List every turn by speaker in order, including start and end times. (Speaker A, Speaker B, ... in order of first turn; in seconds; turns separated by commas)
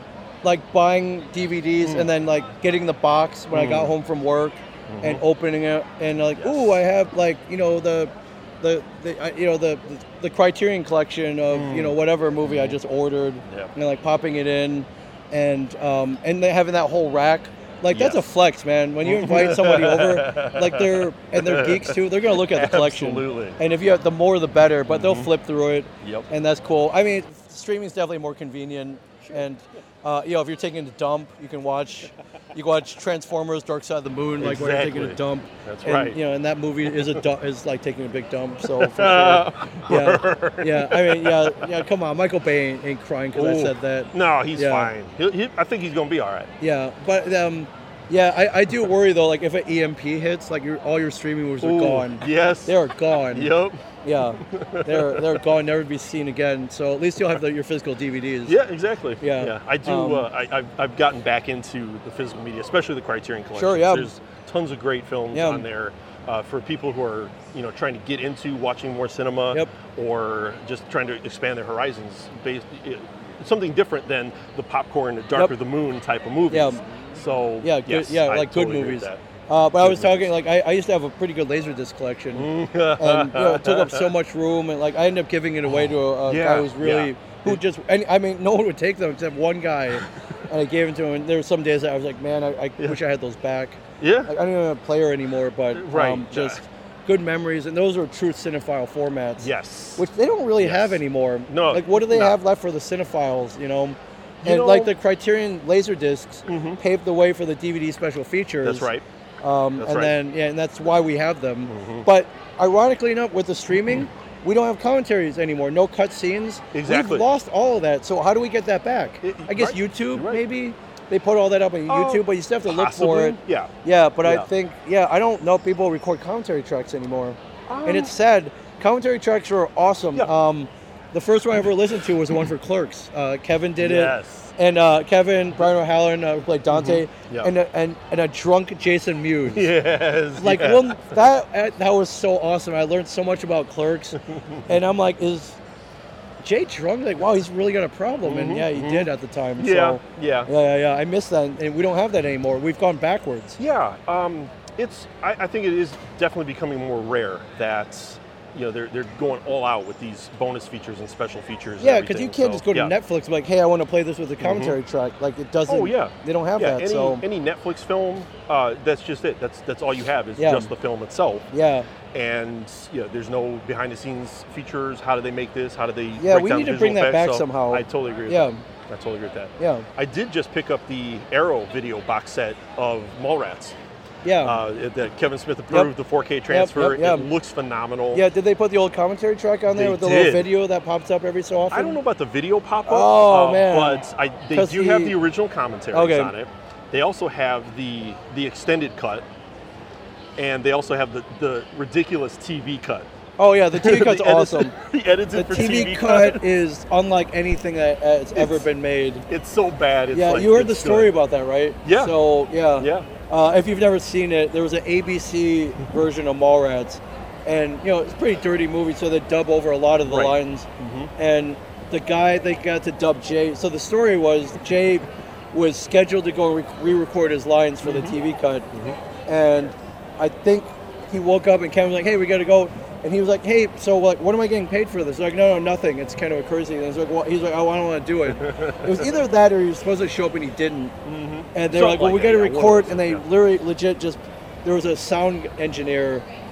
Speaker A: 0.4-44.9, Speaker B: 3.5-3.9, Speaker B: 4.9-5.2, Speaker B: 6.4-6.8, Speaker B: 11.5-12.8, Speaker B: 13.5-13.7, Speaker B: 17.9-18.2, Speaker B: 19.0-23.6, Speaker B: 24.9-25.3, Speaker B: 26.0-26.3, Speaker B: 34.4-36.2, Speaker B: 36.9-37.2, Speaker B: 38.6-41.7, Speaker B: 43.4-46.5, Speaker A: 46.6-53.5, Speaker B: 51.6-55.4, Speaker A: 54.0-58.6, Speaker B: 58.5-79.2, Speaker A: 59.2-60.3, Speaker A: 63.5-64.1, Speaker A: 65.3-65.7, Speaker A: 76.5-76.8, Speaker A: 77.6-108.9, Speaker B: 79.8-80.3, Speaker B: 82.3-84.1, Speaker B: 85.7-87.6, Speaker B: 94.0-94.3, Speaker B: 95.7-96.6, Speaker B: 99.4-100.1, Speaker B: 100.6-102.4, Speaker B: 104.4-104.9, Speaker B: 106.5-106.8, Speaker B: 108.6-109.0, Speaker A: 109.4-139.7, Speaker B: 109.8-110.2, Speaker B: 111.7-112.1, Speaker B: 116.7-117.3, Speaker B: 119.2-120.4, Speaker B: 121.9-123.7, Speaker B: 127.7-128.1, Speaker B: 133.8-134.6, Speaker B: 136.7-137.5, Speaker B: 139.5-141.2, Speaker A: 140.4-144.2, Speaker B: 144.2-144.7, Speaker A: 144.7-145.6, Speaker A: 146.4-153.6, Speaker B: 148.2-150.5, Speaker B: 153.6-162.9, Speaker A: 161.8-167.2, Speaker B: 164.4-164.8, Speaker B: 165.7-171.5, Speaker A: 170.4-170.7, Speaker A: 171.5-171.9, Speaker B: 172.1-183.8, Speaker A: 176.2-178.6, Speaker A: 179.6-179.9, Speaker A: 184.2-184.6, Speaker B: 184.4-188.3, Speaker A: 186.5-187.3, Speaker A: 188.1-192.0, Speaker B: 189.7-190.5, Speaker B: 191.7-199.3, Speaker A: 192.9-195.2, Speaker A: 195.9-196.3, Speaker B: 200.4-203.1, Speaker A: 203.4-204.8, Speaker B: 203.7-206.5, Speaker A: 205.3-209.3, Speaker B: 208.4-208.7, Speaker B: 209.3-211.1, Speaker A: 210.1-228.7, Speaker B: 211.8-212.2, Speaker B: 212.8-213.1, Speaker B: 220.1-221.1, Speaker B: 227.8-228.2, Speaker B: 228.7-229.0, Speaker A: 229.3-240.9, Speaker B: 238.3-239.1, Speaker B: 241.1-243.3, Speaker A: 241.6-246.2